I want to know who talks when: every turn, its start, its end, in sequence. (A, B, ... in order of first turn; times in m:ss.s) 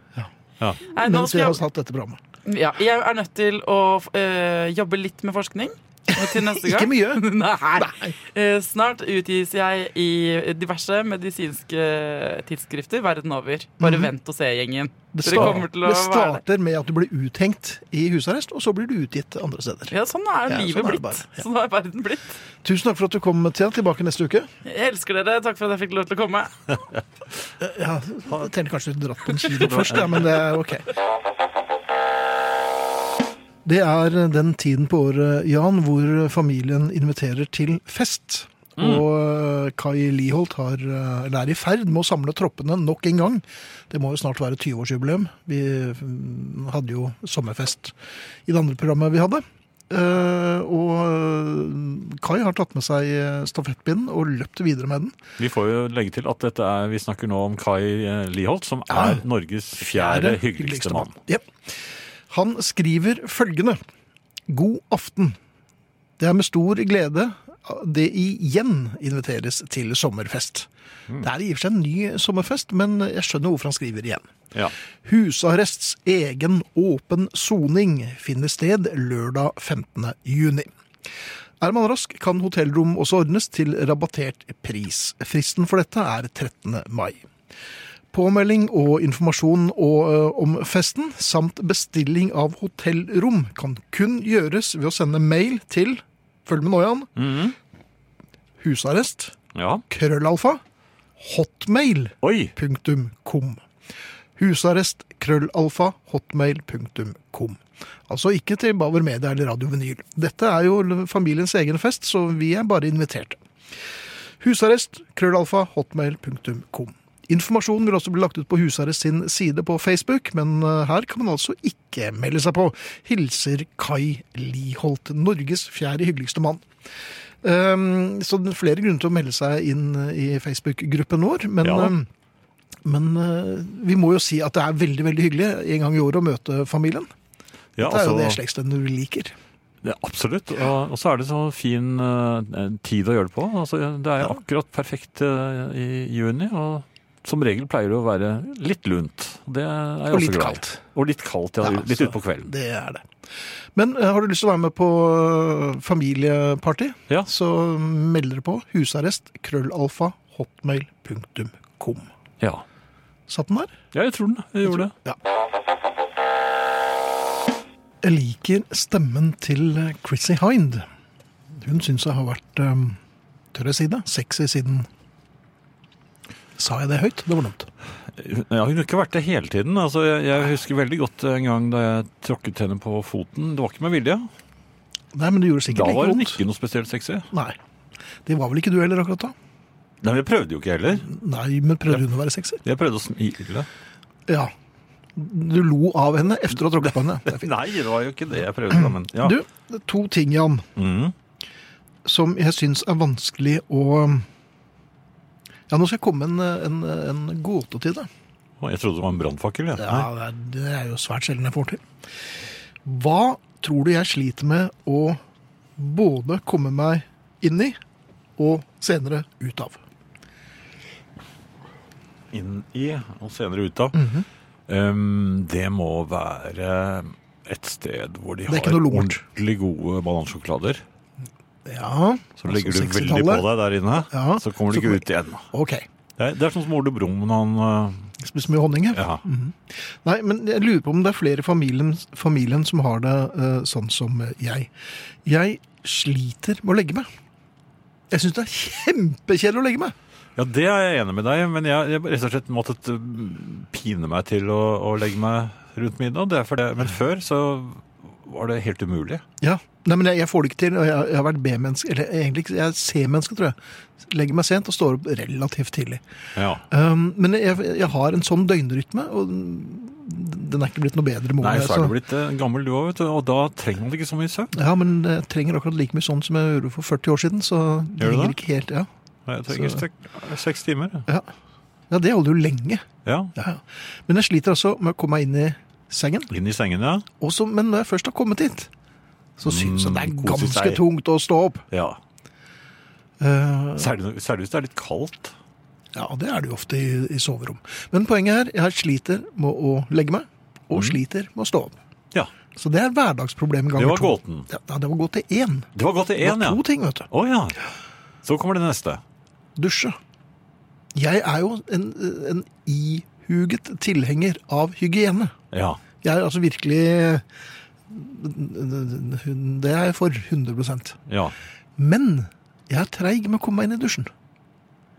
0:00.9-0:01.6 A
0:00.9-0:02.2 B
0:02.5-0:16.4 A
0:06.1-0:07.2 B
0:07.8-0:08.1 B
0:13.8-0:14.1 B
0:15.1-0:20.0 B
0:15.3-0:15.6 C
0:19.9-0:22.4 A
0:20.5-0:21.5 B
0:22.6-0:24.5 B
0:24.6-0:26.6 A
0:27.6-0:30.9 B
0:29.4-0:30.4 C
0:33.6-0:55.2 B
0:38.8-0:39.1 C
0:55.4-1:01.2 C
0:58.9-0:59.2 B
0:59.9-1:01.8 B
1:02.3-1:03.8 B
1:04.5-1:05.4 B
1:06.2-1:10.7 B
1:11.2-1:14.3 B
1:15.0-1:20.7 B
1:21.6-1:27.2 B
1:28.1-1:37.1 B
1:37.2-1:37.6 C
1:38.6-1:39.4 B
1:39.6-1:39.8 C
1:39.9-1:40.6 B
1:41.2-1:43.6 B
1:42.2-1:42.5 C
1:44.4-1:53.4 B
1:54.4-2:06.6 B
2:07.4-2:12.1 B
2:11.6-2:11.9 C
2:12.8-2:17.1 B
2:17.8-2:18.4 C
2:17.8-2:19.4 B
2:19.8-2:32.5 C
2:30.1-2:30.8 B
2:31.6-2:33.1 B
2:33.8-2:42.1 B
2:43.3-2:43.8 B
2:43.9-2:44.9 C
2:44.7-2:45.2 B
2:48.0-2:50.8 B
2:51.6-2:53.0 B
2:53.5-2:54.9 B
2:56.6-2:57.7 B
2:58.1-3:04.3 C
3:05.1-3:06.4 B
3:05.7-3:07.3 C
3:07.3-3:07.6 B
3:08.3-3:09.4 B
3:10.0-3:11.1 C
3:11.0-3:12.6 B
3:12.6-3:13.7 C
3:15.2-3:17.5 B
3:17.3-3:19.4 C
3:18.7-3:20.7 B
3:20.8-3:21.1 C
3:22.0-3:24.3 B
3:25.7-3:28.1 B
3:28.6-3:30.1 C
3:29.8-3:31.8 B
3:32.8-3:35.2 B
3:35.8-3:37.8 B
3:38.4-3:39.8 B
3:42.3-3:44.0 C
3:43.9-3:44.3 B
3:44.7-3:50.8 C
3:48.5-3:49.2 B
3:51.6-3:53.5 B
3:52.4-3:55.5 C
3:54.0-3:55.8 B
3:56.2-3:58.1 C
3:58.2-4:04.7 B
3:58.9-3:59.2 C
4:05.2-4:07.1 B
4:08.1-4:09.9 B
4:10.4-4:19.2 C
4:19.4-4:26.0 B
4:26.4-4:26.6 C
4:26.7-4:31.9 B
4:31.4-4:34.5 C
4:34.5-4:38.9 B
4:38.0-4:38.4 C
4:39.3-4:41.0 C
4:39.5-4:39.8 B
4:41.9-4:42.8 B
4:43.0-4:43.3 C
4:43.4-4:46.3 B
4:46.3-4:47.1 C
4:47.2-4:48.7 B
4:49.4-4:51.6 B
4:49.4-4:50.8 C
4:51.7-4:52.0 C
4:53.2-4:53.9 B
4:53.8-4:55.4 C
4:56.0-5:01.8 B
5:00.7-5:01.0 C
5:02.6-5:05.7 B
5:03.8-5:04.5 C
5:05.8-5:07.6 C
5:06.2-5:07.1 B
5:08.2-5:09.0 C
5:09.6-5:10.0 B
5:10.9-5:15.3 B
5:15.5-5:15.8 C
5:16.0-5:17.2 B
5:17.9-5:21.0 B
5:21.1-5:21.4 C
5:21.8-5:24.1 B